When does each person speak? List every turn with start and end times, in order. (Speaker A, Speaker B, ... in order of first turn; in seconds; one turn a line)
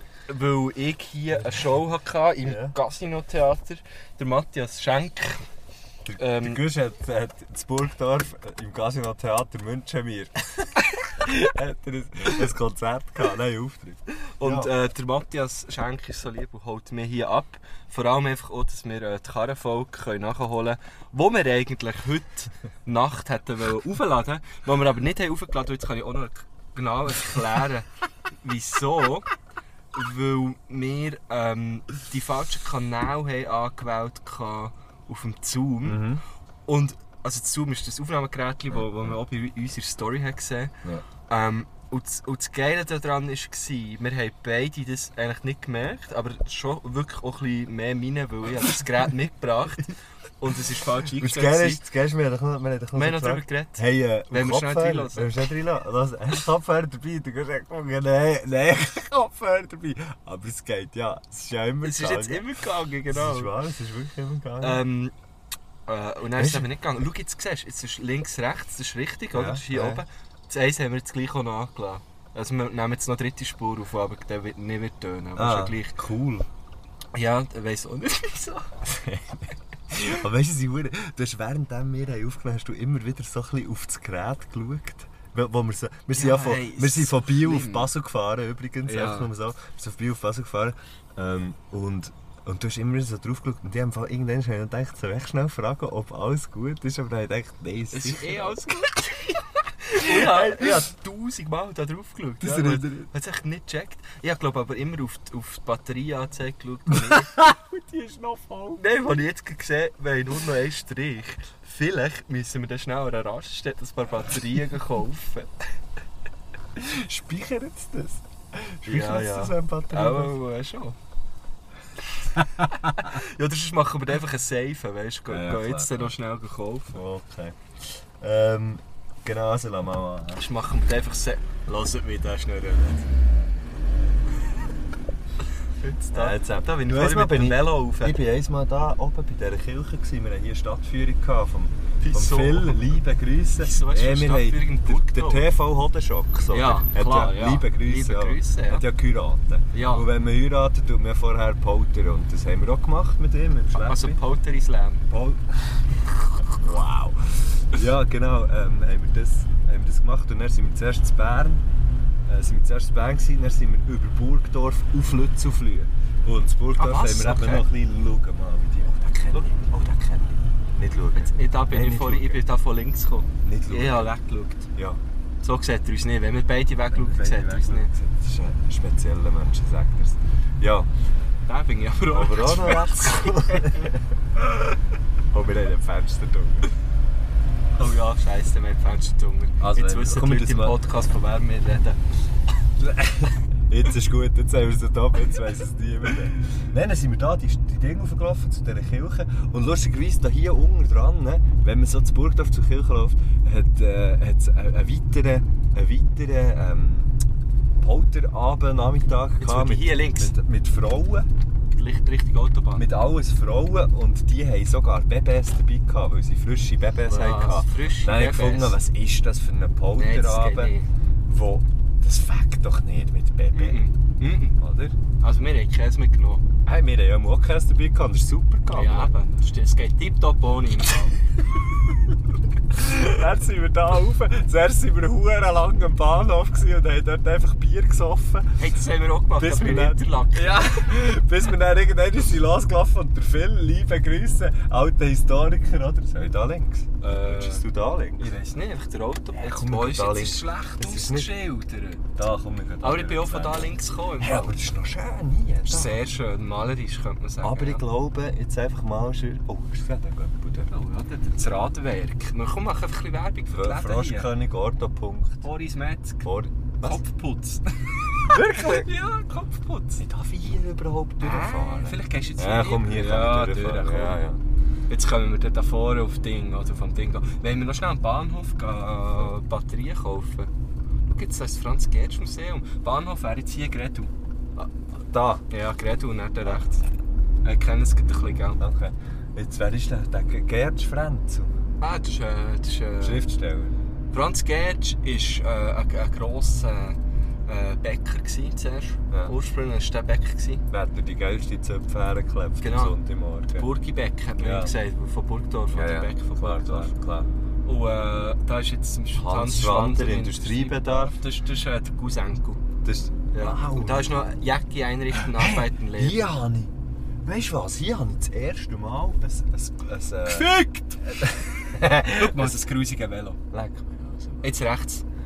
Speaker A: 0.3-5.4
Speaker B: 2.4-2.7
Speaker B: 6.0-14.7
Speaker A: 6.2-6.6
Speaker A: 14.4-27.9
Speaker A: 28.4-29.3
Speaker A: 29.9-36.1
Speaker B: 35.8-36.2
Speaker A: 36.7-40.7
Speaker B: 38.7-39.1
Speaker A: 41.3-51.9
Speaker B: 51.2-62.5
Speaker A: 52.9-55.4
Speaker A: 61.8-63.5
Speaker B: 63.1-64.8
Speaker A: 64.6-65.1
Speaker A: 65.9-76.0
Speaker B: 66.3-66.7
Speaker B: 69.3-70.0
Speaker B: 75.3-76.5
Speaker A: 77.1-78.7
Speaker B: 78.8-98.9
Speaker A: 86.1-87.9
Speaker A: 88.8-89.3
Speaker A: 97.9-107.4
Speaker B: 100.0-100.9
Speaker B: 102.4-103.1
Speaker B: 106.9-109.0
Speaker A: 108.8-115.5
Speaker B: 116.8-120.3
Speaker A: 118.8-121.0
Speaker A: 122.9-127.0
Speaker B: 125.3-126.1
Speaker B: 126.9-127.6
Speaker B: 128.2-130.4
Speaker A: 130.3-133.0
Speaker A: 135.8-138.2
Speaker B: 136.1-154.2
Speaker A: 142.0-142.8
Speaker A: 143.6-145.5
Speaker A: 146.5-148.8
Speaker A: 149.7-150.1
Speaker A: 153.7-155.1
Speaker B: 155.1-155.9
Speaker B: 156.5-161.6
Speaker B: 162.2-172.4
Speaker A: 166.8-167.7
Speaker A: 171.1-174.7
Speaker B: 173.4-174.1
Speaker B: 174.7-175.0
Speaker A: 175.4-177.9
Speaker B: 176.9-180.9
Speaker A: 181.4-183.9
Speaker B: 182.1-184.1
Speaker B: 185.3-186.7
Speaker A: 187.8-192.0
Speaker B: 189.6-190.8
Speaker B: 192.8-207.1
Speaker B: 207.8-211.3
Speaker A: 209.4-210.3
Speaker A: 211.7-212.8
Speaker B: 212.8-220.7
Speaker A: 217.1-218.8
Speaker A: 219.9-220.9
Speaker B: 221.2-223.8
Speaker A: 223.5-224.6
Speaker B: 224.6-224.9
Speaker A: 225.2-226.4
Speaker B: 226.6-229.1
Speaker A: 228.7-231.2
Speaker B: 232.7-238.7
Speaker A: 238.6-240.9
Speaker B: 239.3-248.3
Speaker A: 247.0-247.6
Speaker A: 248.2-252.0
Speaker B: 249.3-251.3
Speaker B: 252.2-256.0
Speaker A: 252.8-254.6
Speaker A: 255.6-257.8
Speaker B: 257.4-260.7
Speaker A: 260.7-264.3
Speaker B: 263.5-265.4
Speaker A: 265.4-266.2
Speaker B: 266.2-267.0
Speaker A: 266.8-270.0
Speaker B: 268.2-268.9
Speaker B: 270.0-274.4
Speaker A: 271.2-274.2
Speaker A: 274.9-280.5
Speaker A: 281.1-284.1
Speaker B: 285.1-285.4
Speaker A: 285.5-286.8
Speaker A: 287.4-288.6
Speaker B: 288.6-291.5
Speaker A: 291.8-293.2
Speaker B: 293.0-293.7
Speaker A: 294.1-300.6
Speaker B: 300.7-303.7
Speaker A: 302.6-303.0
Speaker A: 303.5-306.9
Speaker B: 304.4-304.7
Speaker B: 305.7-307.3
Speaker A: 307.6-312.6
Speaker B: 309.1-311.2
Speaker B: 312.8-314.2
Speaker A: 313.3-316.2
Speaker B: 315.1-316.7
Speaker B: 317.2-322.7
Speaker A: 320.3-321.0
Speaker A: 321.9-323.4
Speaker B: 323.5-324.6
Speaker A: 324.4-325.0